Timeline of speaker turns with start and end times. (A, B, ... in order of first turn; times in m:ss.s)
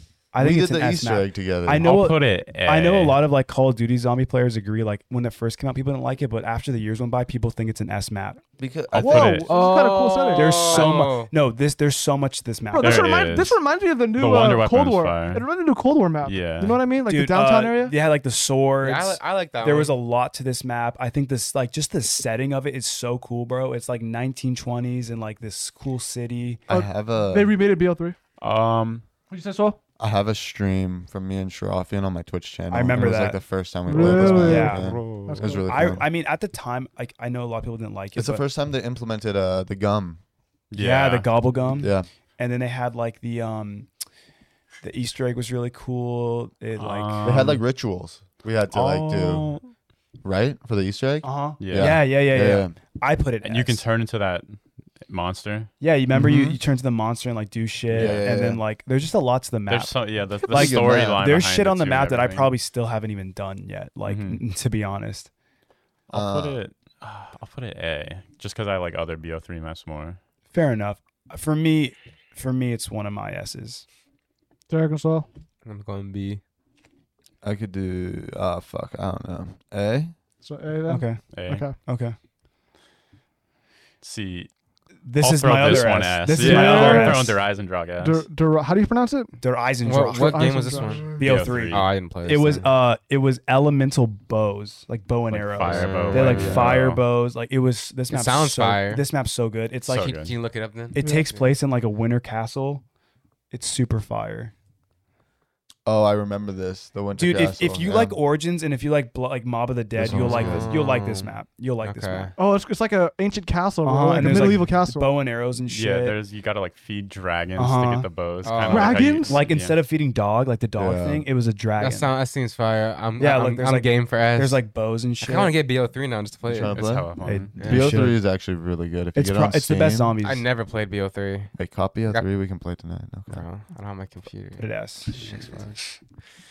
0:00.3-0:08.4 A
0:00.4-0:01.9 B
0:01.8-0:03.2 C
0:08.6-0:09.5 B
0:08.9-0:09.5 C
0:09.0-0:10.9 D
0:09.1-0:09.6 A
0:09.5-0:11.3 E
0:10.3-0:13.1 A
0:12.7-0:18.0 D
0:12.8-0:13.6 C
0:14.1-0:15.5 C
0:16.2-0:16.8 C
0:17.0-0:26.6 A
0:18.8-0:20.0 E
0:26.7-0:27.6 B
0:26.7-0:28.2 D
0:28.4-0:29.0 C
0:29.3-0:29.8 D
0:30.0-0:36.0 B
0:32.7-0:33.4 A
0:33.9-0:35.7 D
0:33.9-0:38.4 A
0:34.4-0:35.5 C
0:38.2-0:40.2 B
0:40.7-0:41.3 C
0:40.8-0:43.9 A
0:41.8-0:42.1 B
0:44.8-0:47.6 A
0:46.8-0:47.6 C
0:47.2-0:49.5 B
0:48.7-0:49.6 A
0:50.2-0:52.8 B
0:51.2-0:53.8 A
0:51.6-0:52.0 C
0:53.4-0:55.7 C
0:55.8-1:00.0 A
0:56.1-0:56.6 B
0:57.9-0:58.2 C
0:57.9-0:58.6 B
0:59.7-1:02.5 C
1:00.5-1:01.3 B
1:00.5-1:05.3 A
1:04.0-1:04.4 C
1:06.1-1:10.2 C
1:06.1-1:06.6 B
1:10.5-1:13.8 A
1:14.7-1:15.3 D
1:15.6-1:16.4 E
1:17.4-1:20.1 B
1:20.4-1:21.8 D
1:20.9-1:22.2 A
1:21.3-1:21.7 C
1:24.0-1:24.5 C
1:25.0-1:27.4 A
1:25.2-1:28.3 C
1:26.4-1:27.4 D
1:28.0-1:29.4 D
1:29.4-1:40.2 A
1:29.8-1:32.7 E
1:30.1-1:31.3 D
1:31.1-1:31.9 C
1:35.3-1:37.0 C
1:35.6-1:36.7 E
1:36.3-1:36.8 B
1:38.1-1:39.0 E
1:39.9-1:40.3 C
1:40.1-1:41.4 E
1:41.0-1:42.8 A
1:41.0-1:41.3 D
1:43.5-1:44.5 A
1:45.8-1:48.2 B
1:47.2-1:52.3 A
1:50.0-1:50.8 B
1:50.1-1:52.3 E
1:52.4-1:55.1 D
1:53.8-1:56.2 A
1:55.7-1:59.8 C
1:57.6-1:58.1 A
1:58.4-1:59.2 E
1:58.7-1:59.4 D
1:59.2-2:02.1 A
2:00.8-2:01.3 B
2:01.8-2:04.6 E
2:03.2-2:05.6 A
2:05.2-2:06.8 E
2:06.5-2:10.1 B
2:06.7-2:07.5 C
2:07.2-2:08.2 A
2:07.6-2:08.0 E
2:09.2-2:10.5 A
2:10.2-2:11.5 E
2:11.6-2:13.4 B
2:13.3-2:15.9 E
2:14.6-2:15.2 A